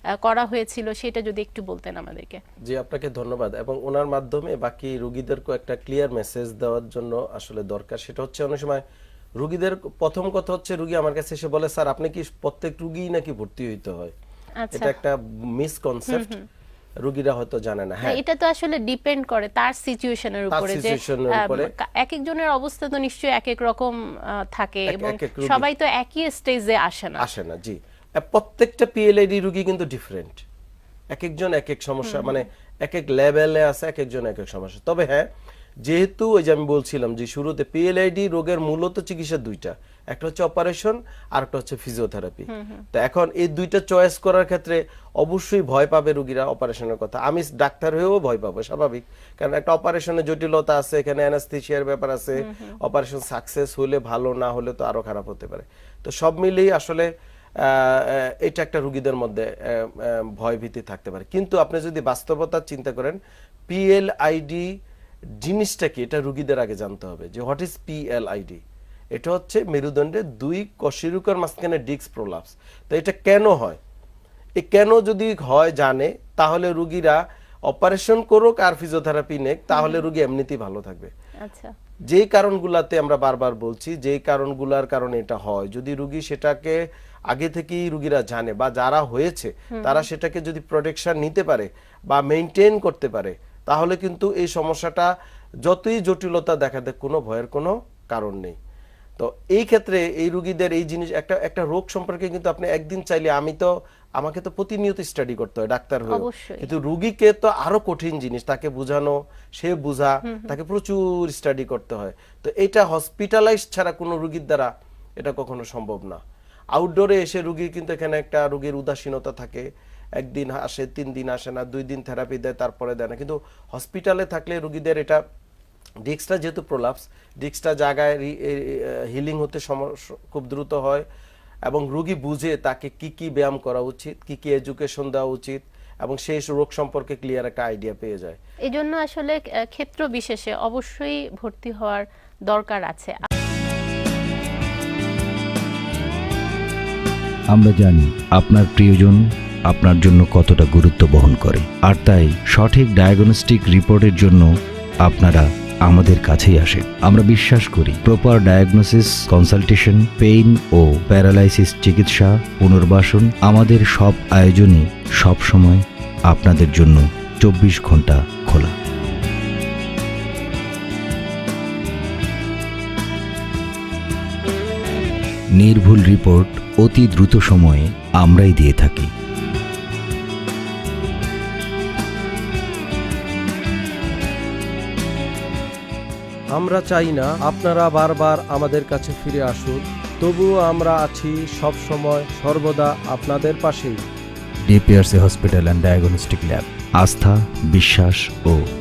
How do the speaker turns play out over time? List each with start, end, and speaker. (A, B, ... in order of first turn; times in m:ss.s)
0:00.2-0:02.4 A
0:02.7-0:08.8 B
0:09.4-0:14.2 B
0:14.6-0:14.9 A
0:14.7-0:16.4 B
0:16.1-0:16.4 A
0:17.0-0:18.2 B
0:18.0-0:27.3 A
0:20.5-0:21.7 B
0:24.9-0:25.7 B
0:27.2-0:30.4 B
0:31.1-0:35.3 B
0:32.0-0:32.4 A
0:35.8-0:57.1 B
0:42.5-0:42.8 A
0:52.4-0:52.8 A
0:57.6-1:04.7 B
1:05.4-1:08.6 B
1:09.2-1:13.8 B
1:14.6-1:21.1 B
1:19.7-1:20.0 A
1:21.4-1:21.7 A
1:22.1-1:26.8 B
1:27.3-1:35.1 B
1:29.8-1:30.1 A
1:35.6-1:38.6 B
1:39.2-1:56.2 B
1:46.1-1:46.7 A
1:50.3-1:50.6 A
1:56.7-2:05.2 B
2:06.0-2:11.1 B
2:11.7-2:18.4 B
2:18.7-2:23.3 A
2:27.5-2:34.5 C
2:35.0-2:48.8 C
2:55.6-2:59.1 C
3:06.5-3:14.0 B
3:14.6-3:18.6 C